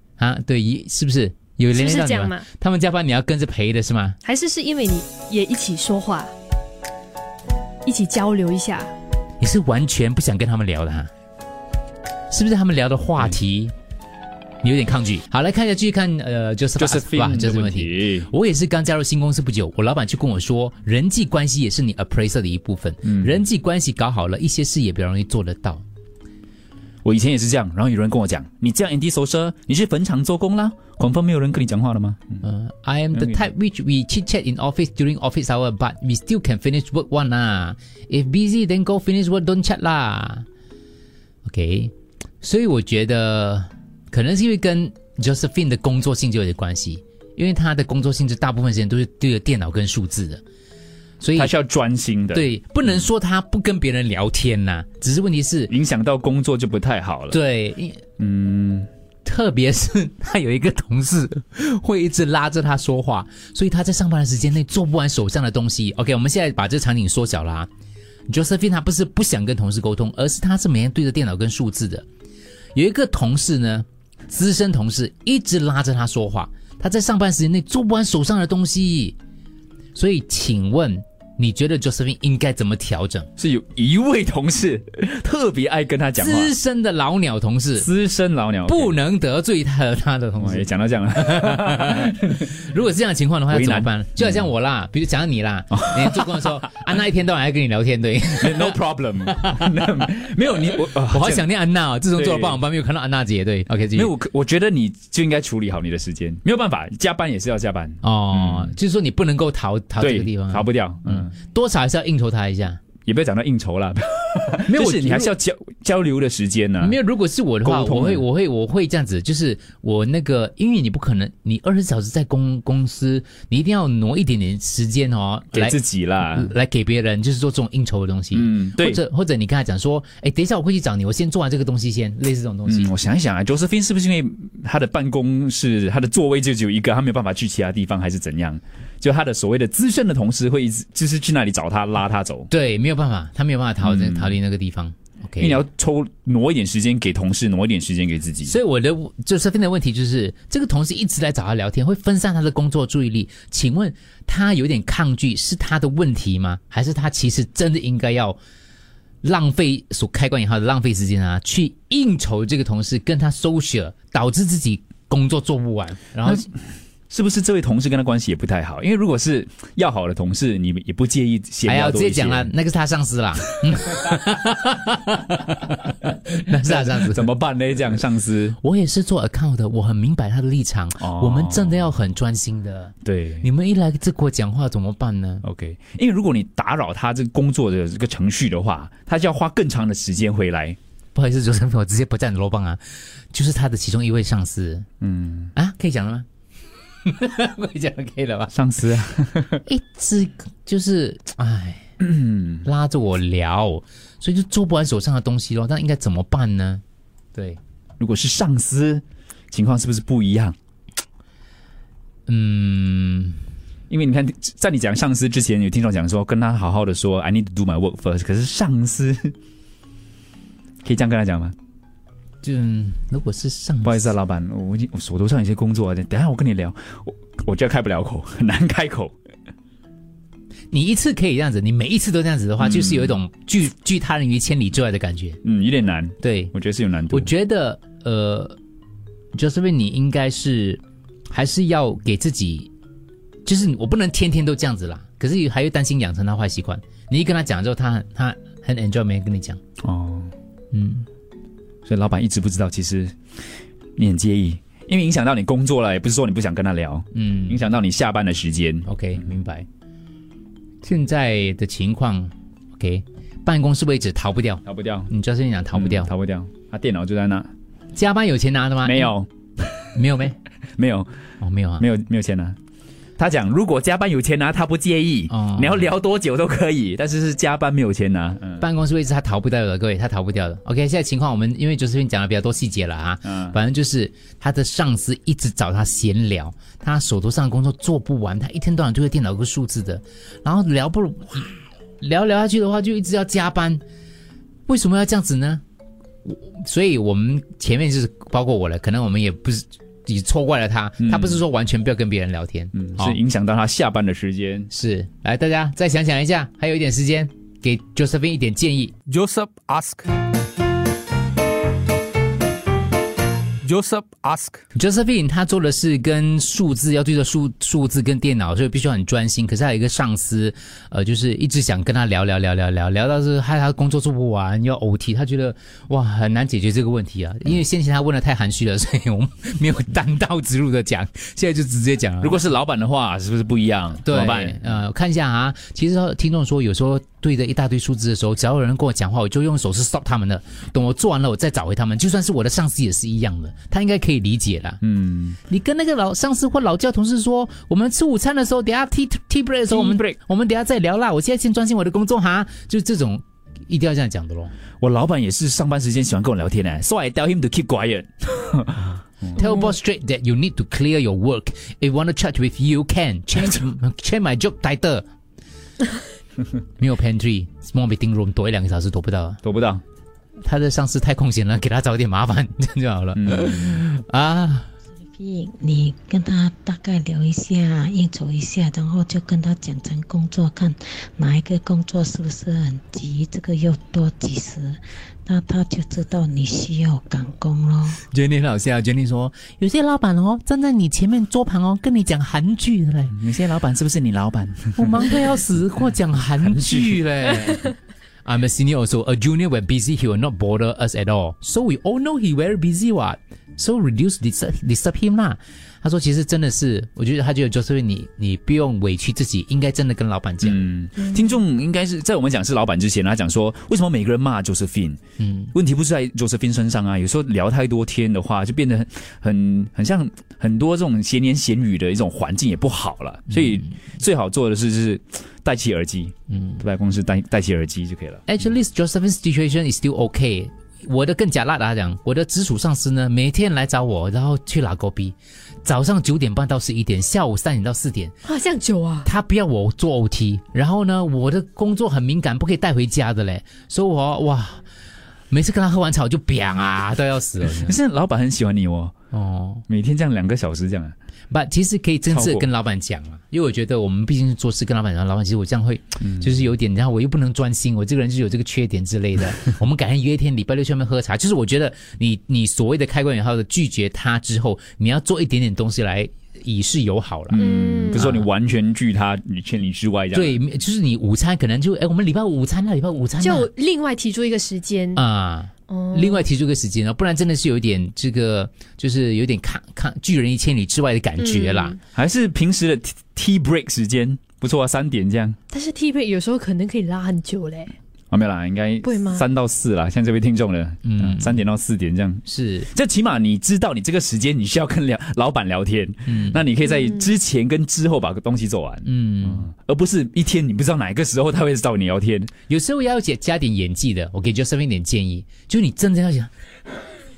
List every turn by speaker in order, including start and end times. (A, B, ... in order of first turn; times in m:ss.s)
0:00.2-0:04.2 A
0:01.7-0:02.4 B
0:04.2-0:06.3 B
0:07.8-0:08.9 B
0:09.4-0:11.1 A
0:12.3-0:13.7 A
0:14.6-0:25.8 A
0:16.8-0:18.3 C
0:23.0-0:23.4 C
0:27.0-0:32.4 C
0:32.4-0:40.4 A
0:41.4-0:50.4 A
0:51.2-0:51.5 A
0:51.4-0:52.5 C
0:52.3-0:55.7 A
0:55.7-0:57.4 C
0:57.3-0:58.0 A
0:58.2-0:58.9 C
0:59.2-1:07.7 A
1:08.3-1:12.0 A
1:12.7-1:19.2 A
1:19.9-1:23.3 A
1:23.4-1:26.5 C
1:26.2-1:27.9 A
1:27.8-1:29.0 C
1:28.6-1:30.6 A
1:30.4-1:32.5 C
1:31.2-1:38.8 A
1:33.5-1:34.5 C
1:35.8-1:36.5 C
1:38.3-1:41.4 C
1:41.1-1:44.1 A
1:42.1-1:42.6 C
1:43.9-1:48.7 C
1:48.0-1:52.8 A
1:50.0-1:51.3 C
1:53.0-1:57.0 C
1:54.7-1:55.3 A
1:56.8-2:12.9 A
1:57.6-1:58.2 C
2:05.5-2:06.5 C
2:08.3-2:09.0 C
2:12.7-2:22.5 C
2:22.5-2:25.6 A
2:23.8-2:24.4 C
2:25.4-2:28.6 C
2:28.4-2:38.4 A
2:39.2-2:46.4 A
2:47.1-2:52.5 C
2:51.6-2:57.2 A
2:56.6-2:58.6 C
2:58.6-3:05.4 A
3:01.0-3:01.9 C
3:03.0-3:03.5 C
3:05.4-3:10.8 C
3:11.1-3:12.8 A
3:13.3-3:14.9 A
3:15.0-3:15.5 C
3:15.6-3:16.2 A
3:17.0-3:18.5 A
3:18.5-3:19.6 C
3:19.7-3:21.9 A
3:22.0-3:22.6 C
3:22.6-3:26.8 A
3:27.3-3:27.6 A
3:28.0-3:30.6 C
3:32.3-3:33.4 A
3:33.9-3:39.3 C
3:40.8-3:41.5 C
3:42.4-3:44.1 A
3:43.8-3:49.1 C
3:50.7-3:55.4 A
3:52.6-3:53.2 C
3:55.4-3:57.3 C
3:56.2-3:56.5 A
3:57.1-3:58.6 A
3:59.3-4:02.7 A
4:03.4-4:09.6 A
4:09.8-4:10.3 C
4:10.7-4:11.0 A
4:11.8-4:13.1 C
4:14.0-4:18.9 C
4:17.1-4:17.6 A
4:18.8-4:19.7 A
4:20.8-4:26.1 A
4:24.6-4:25.1 C
4:25.7-4:27.5 C
4:27.9-4:29.1 A
4:28.8-4:29.8 C
4:29.9-4:30.4 A
4:30.8-4:31.1 C
4:31.4-4:31.8 A
4:31.8-4:32.6 C
4:33.2-4:38.6 C
4:35.3-4:35.9 A
4:38.6-4:53.8 A
4:43.2-4:43.6 C
4:54.7-4:55.6 A
4:56.2-5:03.2 A
5:01.0-5:01.4 C
5:02.7-5:04.7 C
5:04.7-5:09.0 A
5:09.1-5:10.1 D
5:13.6-5:14.6 D
5:14.7-5:32.4 A
5:32.2-5:34.7 C
5:34.0-5:44.8 A
5:44.8-5:45.4 C
5:45.5-5:54.5 A
5:49.7-5:50.1 C
5:54.8-5:59.3 C
5:59.3-6:05.0 A
5:59.4-5:59.7 B
6:06.8-6:09.4 A
6:09.4-6:09.8 C
6:10.4-6:14.7 A
6:13.2-6:13.8 C
6:15.2-6:28.0 E
6:28.1-6:33.2 A
6:33.1-6:35.2 C
6:34.8-6:50.6 A
6:36.4-6:37.0 C
6:50.4-6:55.0 C
6:55.2-6:55.5 A
6:55.5-7:08.2 C
7:06.3-7:06.6 A
7:08.3-7:18.1 A
7:18.2-7:19.1 B
7:19.0-7:24.6 A
7:25.3-7:27.8 A
7:27.4-7:28.9 C
7:29.1-7:29.6 A
7:29.7-7:31.0 C
7:31.3-7:48.3 A
7:32.1-7:32.5 C
7:36.0-7:36.3 C
7:47.3-7:50.4 C
7:47.4-7:48.0 B
7:50.1-7:53.5 A
7:53.2-7:55.0 B
7:55.0-8:01.8 A
7:55.7-7:56.2 B
8:01.2-8:01.8 B
8:01.9-8:05.4 C
8:05.5-8:07.8 B
8:08.1-8:22.3 C
8:08.8-8:09.2 B
8:10.8-8:11.4 A
8:12.2-8:12.7 A
8:16.1-8:16.4 A
8:18.8-8:19.5 A
8:22.5-8:26.3 A